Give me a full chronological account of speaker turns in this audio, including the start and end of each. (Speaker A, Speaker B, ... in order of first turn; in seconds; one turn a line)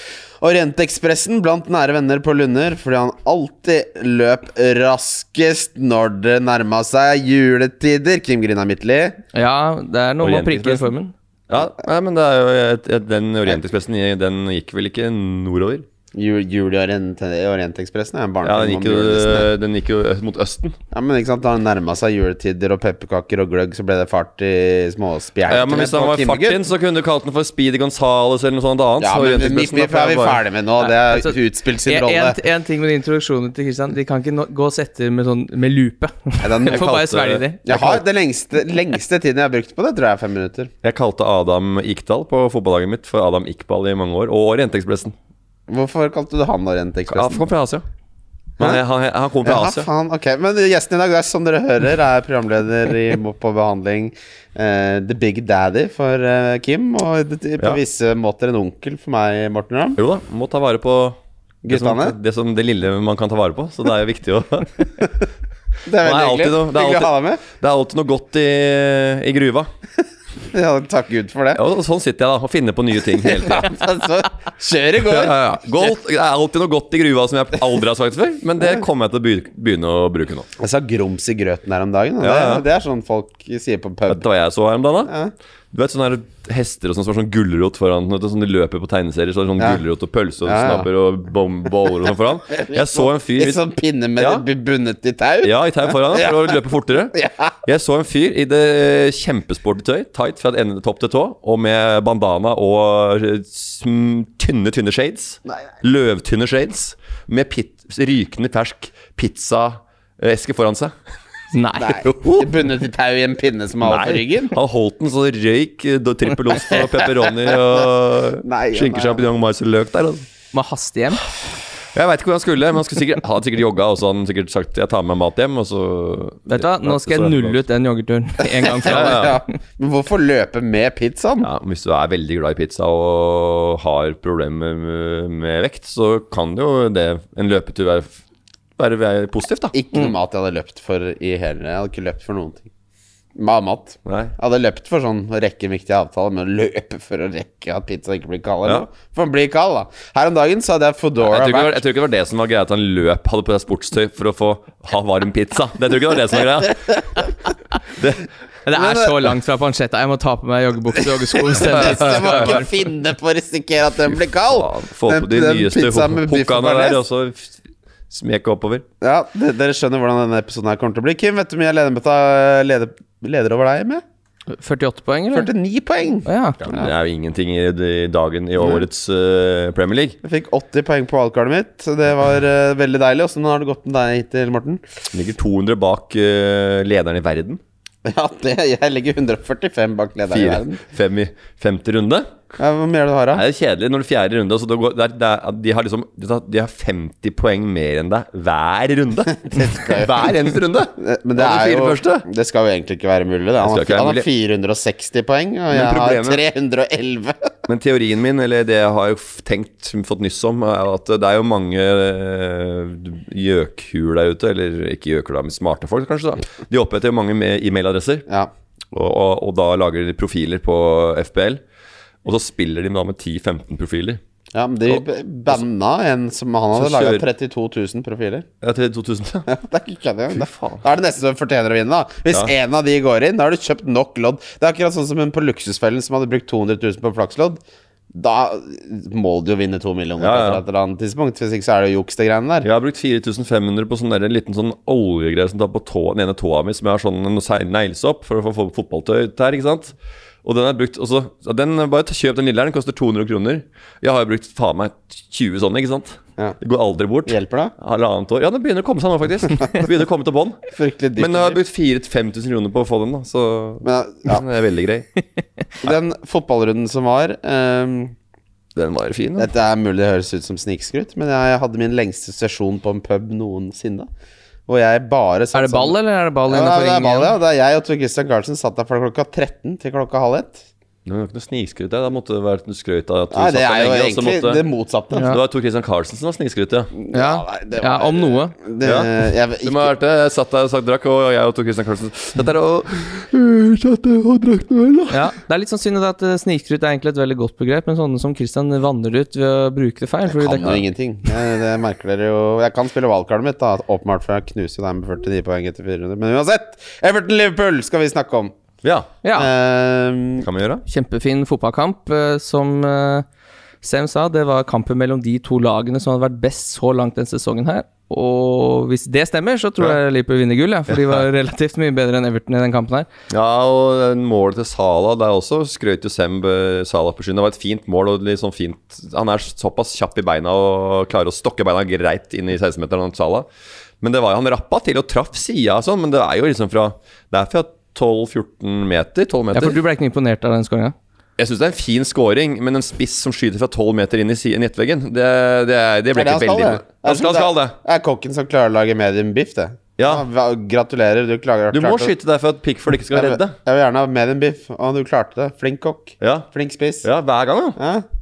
Speaker A: 0.4-9.2
Speaker B: 9.3-11.1
Speaker C: 10.2-10.9
Speaker C: 11.5-15.8
Speaker A: 16.1-19.5
Speaker C: 18.4-20.8
Speaker A: 20.9-26.6
Speaker C: 25.5-30.4
Speaker A: 29.0-32.4
Speaker B: 31.1-31.3
Speaker B: 31.9-38.0
Speaker A: 36.4-37.0
Speaker C: 36.7-37.4
Speaker A: 37.6-40.7
Speaker C: 40.8-45.1
Speaker A: 45.7-47.4
Speaker C: 47.1-47.8
Speaker C: 48.6-49.9
Speaker A: 49.4-60.0
Speaker C: 60.0-64.7
Speaker A: 61.6-62.1
Speaker A: 65.8-67.4
Speaker C: 66.0-69.7
Speaker A: 70.5-71.6
Speaker C: 71.5-74.0
Speaker A: 73.2-75.9
Speaker C: 75.0-80.5
Speaker A: 80.6-84.2
Speaker C: 82.2-82.7
Speaker C: 84.1-85.1
Speaker A: 85.1-85.3
Speaker C: 85.7-93.6
Speaker A: 90.4-90.9
Speaker A: 92.5-96.6
Speaker C: 94.2-94.4
Speaker C: 95.4-110.9
Speaker A: 97.1-97.5
Speaker B: 111.5-112.0
Speaker A: 111.8-114.5
Speaker C: 112.0-112.5
Speaker C: 113.8-120.2
Speaker A: 118.4-119.2
Speaker B: 120.5-121.2
Speaker C: 121.9-127.6
Speaker B: 126.5-129.4
Speaker A: 128.7-131.5
Speaker C: 128.8-129.4
Speaker C: 131.4-138.2
Speaker C: 138.8-139.7
Speaker A: 139.7-142.7
Speaker A: 143.3-151.8
Speaker C: 144.1-144.3
Speaker C: 151.2-157.2
Speaker C: 157.9-158.2
Speaker B: 158.7-162.7
Speaker A: 158.7-159.2
Speaker A: 161.5-167.0
Speaker C: 161.6-162.6
Speaker C: 164.5-167.6
Speaker C: 168.1-168.8
Speaker A: 169.0-174.0
Speaker B: 174.5-175.5
Speaker A: 175.3-176.9
Speaker B: 176.2-176.6
Speaker C: 176.6-180.2
Speaker A: 178.6-178.8
Speaker A: 180.2-184.8
Speaker C: 185.1-187.6
Speaker A: 188.0-190.8
Speaker C: 190.3-192.3
Speaker A: 192.6-193.4
Speaker C: 193.3-202.2
Speaker A: 199.4-200.3
Speaker A: 201.0-207.5
Speaker C: 203.6-204.2
Speaker C: 205.7-206.4
Speaker C: 207.7-218.2
Speaker C: 218.9-221.6
Speaker C: 222.2-224.2
Speaker A: 224.5-228.5
Speaker C: 224.9-225.6
Speaker C: 226.7-227.2
Speaker C: 228.6-229.5
Speaker A: 229.5-237.6
Speaker C: 230.3-230.8
Speaker A: 238.1-242.7
Speaker C: 240.2-240.6
Speaker C: 242.6-260.6
Speaker A: 257.3-257.7
Speaker A: 260.7-261.6
Speaker C: 261.1-265.1
Speaker A: 263.8-264.4
Speaker A: 265.8-268.1
Speaker C: 268.7-269.5
Speaker A: 269.4-274.1
Speaker A: 274.7-276.0
Speaker B: 275.5-277.3
Speaker A: 276.5-280.6
Speaker C: 281.1-284.6
Speaker A: 283.3-285.3
Speaker C: 285.2-286.9
Speaker A: 286.9-289.9
Speaker B: 287.1-288.5
Speaker C: 288.8-289.1
Speaker C: 289.6-295.2
Speaker B: 295.1-300.8
Speaker A: 300.4-308.5
Speaker C: 308.8-309.1
Speaker B: 309.2-309.5
Speaker A: 309.4-310.5
Speaker C: 310.4-310.8
Speaker B: 310.9-313.2
Speaker B: 313.8-323.1
Speaker C: 320.9-321.2
Speaker C: 323.3-333.5
Speaker C: 334.0-339.8
Speaker B: 339.5-340.9
Speaker C: 341.4-347.7
Speaker A: 346.1-352.1
Speaker C: 350.0-350.2
Speaker C: 351.7-353.6
Speaker A: 353.1-357.1
Speaker C: 356.2-356.5
Speaker C: 357.0-357.8
Speaker A: 357.8-358.0